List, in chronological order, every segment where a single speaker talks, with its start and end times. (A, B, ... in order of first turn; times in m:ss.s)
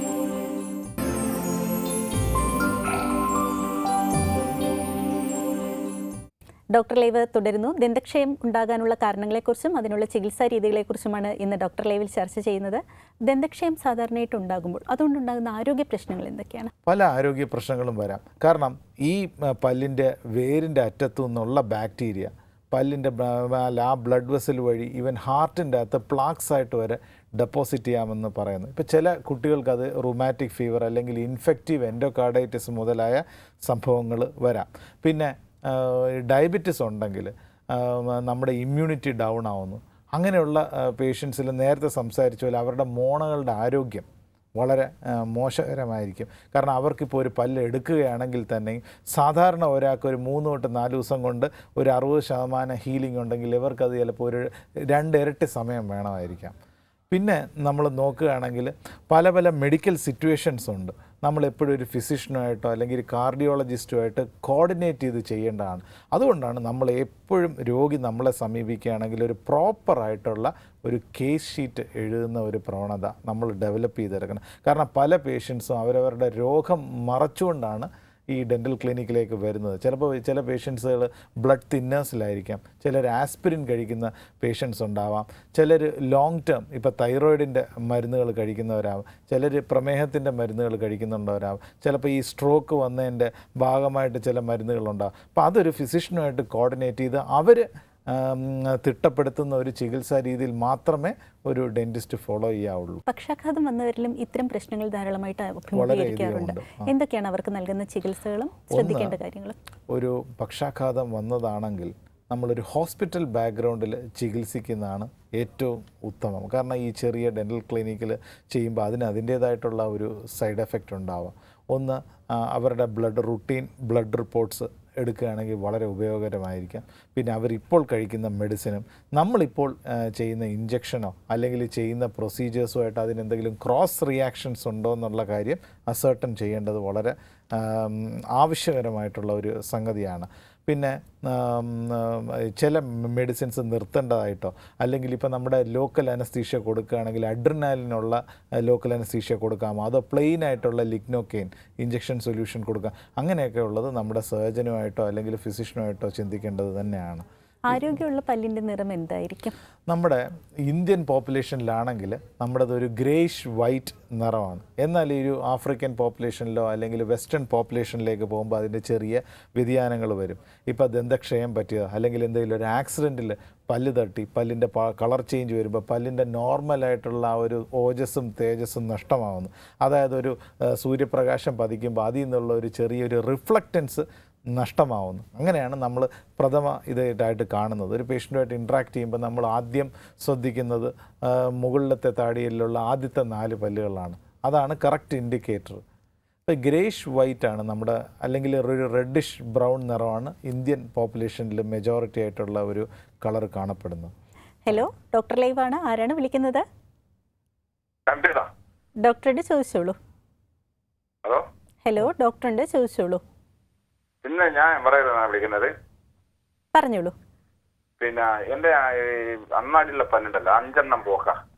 0:06.7-0:16.7 A
0:16.9-0:56.6 B
0:57.1-1:43.0 B
1:43.1-1:49.6 A
1:45.7-1:46.9 B
1:48.7-1:49.2 B
1:49.9-2:37.8 B
2:37.7-2:39.6 A
2:39.9-3:15.8 B
3:16.5-3:24.1 B
3:24.7-3:26.6 A
3:28.1-3:28.5 C
3:29.0-3:30.0 A
3:31.8-3:33.2 A
3:34.2-3:35.7 C
3:36.7-3:37.1 A
3:38.0-3:41.4 C